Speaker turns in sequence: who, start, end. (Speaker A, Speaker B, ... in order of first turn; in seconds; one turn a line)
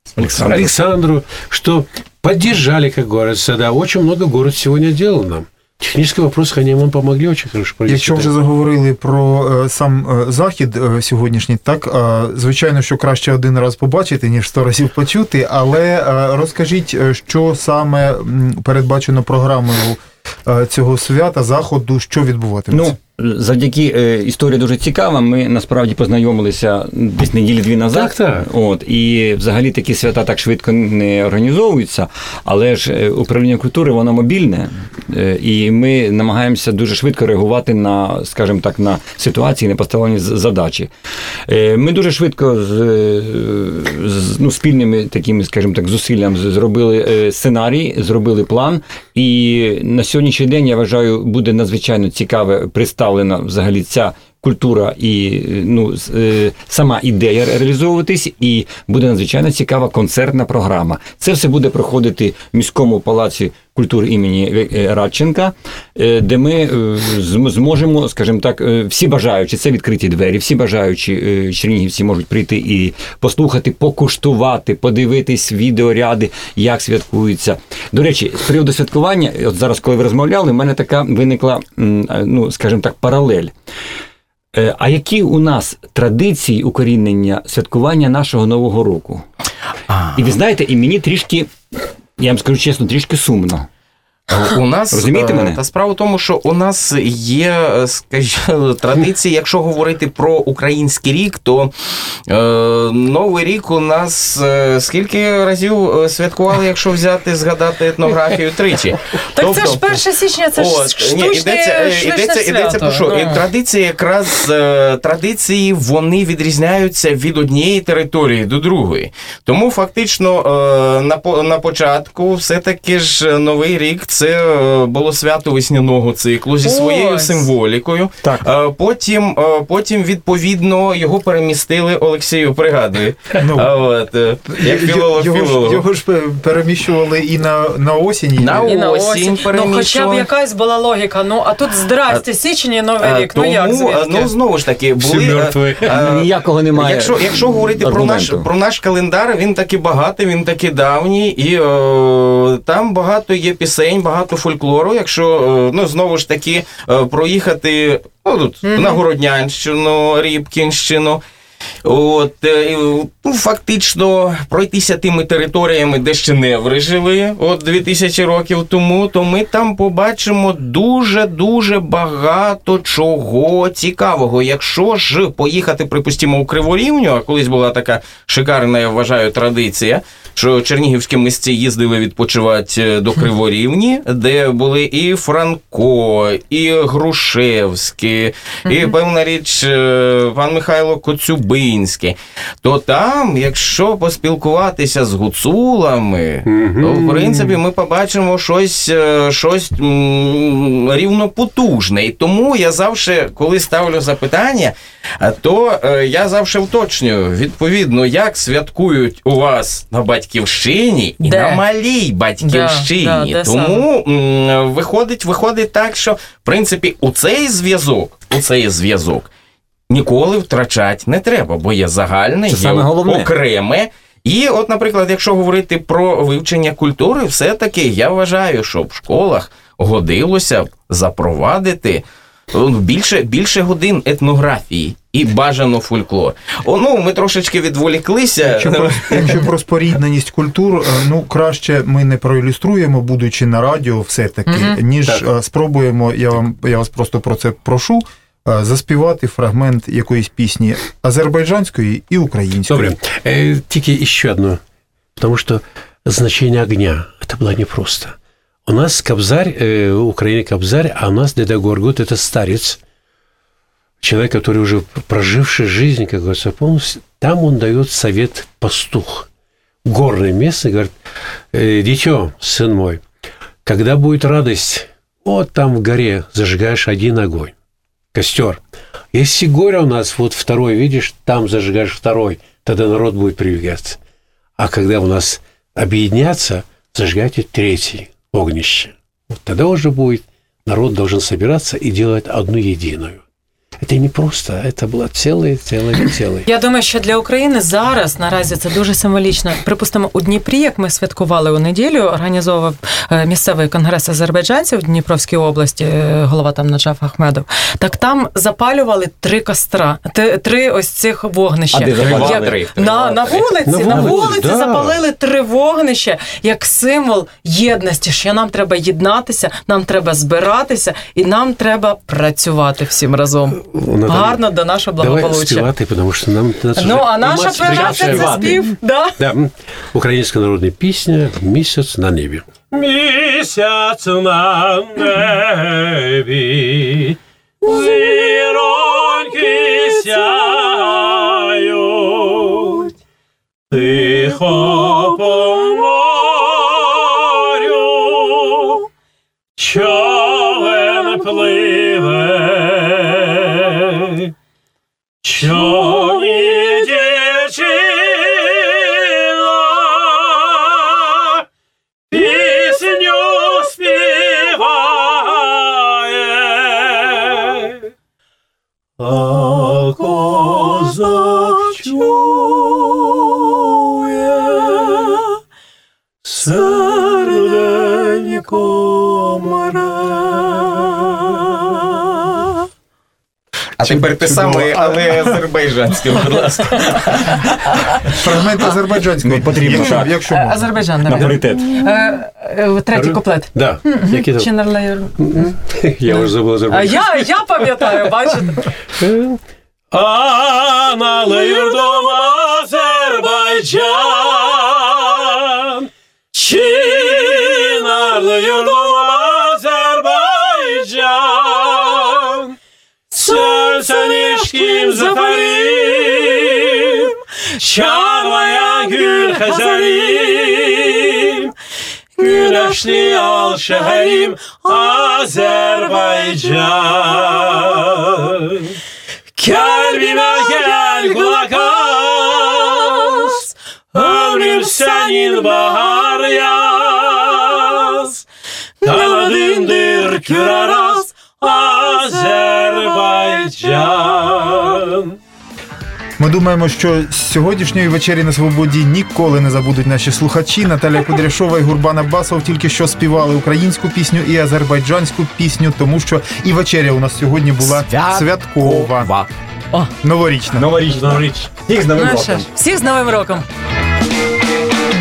Speaker A: 0.2-8.3
Speaker B: 0.2-0.7
Speaker C: 7.9-22.9
Speaker B: 22.7-40.9
Speaker A: 27.9-28.5
Speaker B: 41.5-83.5
Speaker B: 84.5-89.2
Speaker D: 89.9-90.2
Speaker B: 90.1-91.5
Speaker B: 92.2-93.7
Speaker B: 94.3-95.6
Speaker D: 94.4-101.7
Speaker D: 102.3-110.0
Speaker E: 109.3-113.4
Speaker D: 110.5-135.8
Speaker E: 126.6-127.4
Speaker C: 133.4-133.7
Speaker C: 134.5-138.7
Speaker D: 138.4-140.3
Speaker E: 138.7-144.3
Speaker D: 143.0-161.2
Speaker A: 145.0-145.9
Speaker B: 145.8-148.5
Speaker E: 158.7-159.0
Speaker D: 161.8-219.3
Speaker A: 196.4-197.6
Speaker E: 211.2-211.6
Speaker E: 212.4-213.8
Speaker D: 219.9-239.4
Speaker B: 222.5-223.3
Speaker C: 238.4-253.0
Speaker E: 244.5-244.8
Speaker A: 252.7-254.6
Speaker A: 255.2-262.8
Speaker A: 264.0-269.3
Speaker A: 269.8-270.9
Speaker A: 271.5-273.0
Speaker A: 273.6-277.5
Speaker A: 278.1-278.6
Speaker A: 279.1-284.0
Speaker A: 284.6-293.2
Speaker A: 293.8-296.5
Speaker E: 296.5-325.7
Speaker B: 311.7-312.6
Speaker D: 311.8-314.3
Speaker A: 313.6-315.0
Speaker A: 323.6-324.4
Speaker A: 325.0-332.5
Speaker E: 326.8-329.2
Speaker B: 327.8-328.6
Speaker F: 332.7-342.9
Speaker F: 343.7-348.8
Speaker F: 349.6-354.2
Speaker F: 355.2-361.3
Speaker F: 362.1-367.8
Speaker F: 369.0-375.2
Speaker F: 376.2-381.9
Speaker D: 383.8-387.6
Speaker C: 383.9-385.3
Speaker C: 388.1-391.2
Speaker B: 389.2-390.3
Speaker E: 389.8-395.5
Speaker B: 391.1-391.7
Speaker A: 392.9-394.5
Speaker A: 395.2-397.4
Speaker E: 396.1-398.7
Speaker A: 399.0-399.4
Speaker F: 399.9-405.7
Speaker F: 406.3-412.5
Speaker F: 413.1-421.5
Speaker F: 422.2-428.7
Speaker F: 429.4-438.2
Speaker F: 438.8-445.1
Speaker C: 446.2-459.1
Speaker D: 457.6-459.3
Speaker C: 460.0-460.7
Speaker B: 460.6-462.5
Speaker E: 461.9-463.4